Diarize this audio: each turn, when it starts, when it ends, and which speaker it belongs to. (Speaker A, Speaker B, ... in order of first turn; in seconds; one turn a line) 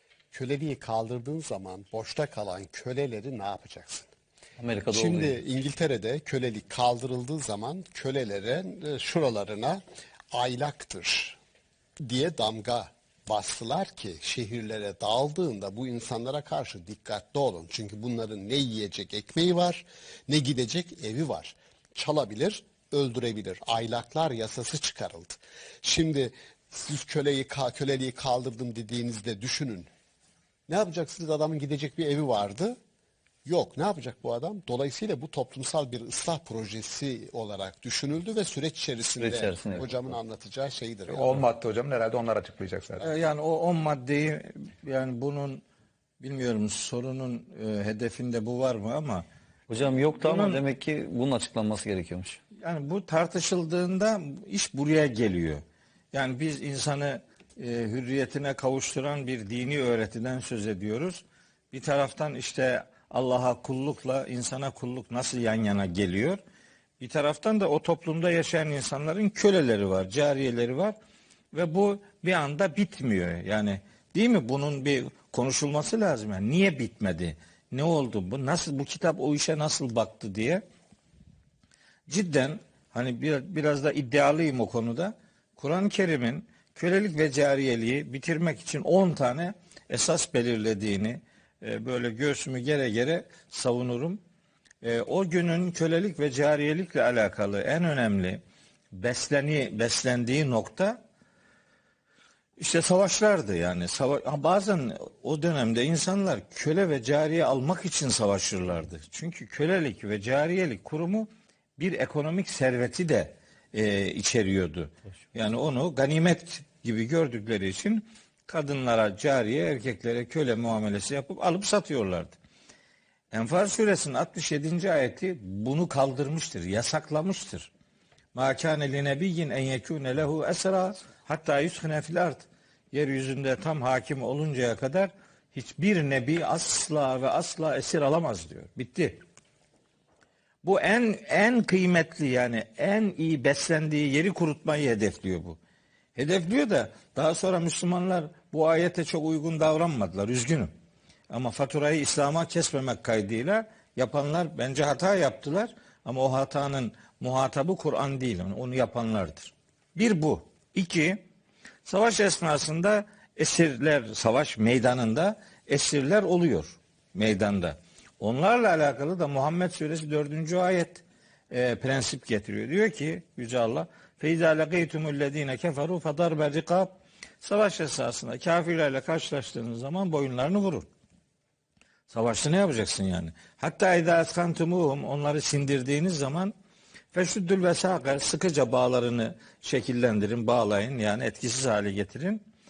Speaker A: 0.3-4.1
Speaker B: 4.6-5.4
Speaker A: 4.9-9.8
Speaker A: 10.3-11.4
Speaker A: 12.0-29.9
Speaker A: 30.7-32.8
Speaker A: 33.5-41.4
Speaker B: 39.2-40.1
Speaker C: 41.1-43.1
Speaker D: 43.0-45.6
Speaker D: 46.2-49.2
Speaker B: 49.7-52.4
Speaker D: 50.2-50.6
Speaker D: 52.6-66.4
Speaker D: 67.0-71.0
Speaker D: 71.5-80.6
Speaker D: 82.1-94.2
Speaker D: 94.8-98.4
Speaker D: 98.9-101.0
Speaker D: 102.6-122.4
Speaker D: 123.3-127.7
Speaker D: 128.3-139.2
Speaker D: 140.6-145.6
Speaker D: 146.2-150.7
Speaker D: 151.3-161.2
Speaker D: 161.8-180.9
Speaker D: 182.1-186.5
Speaker D: 187.1-192.4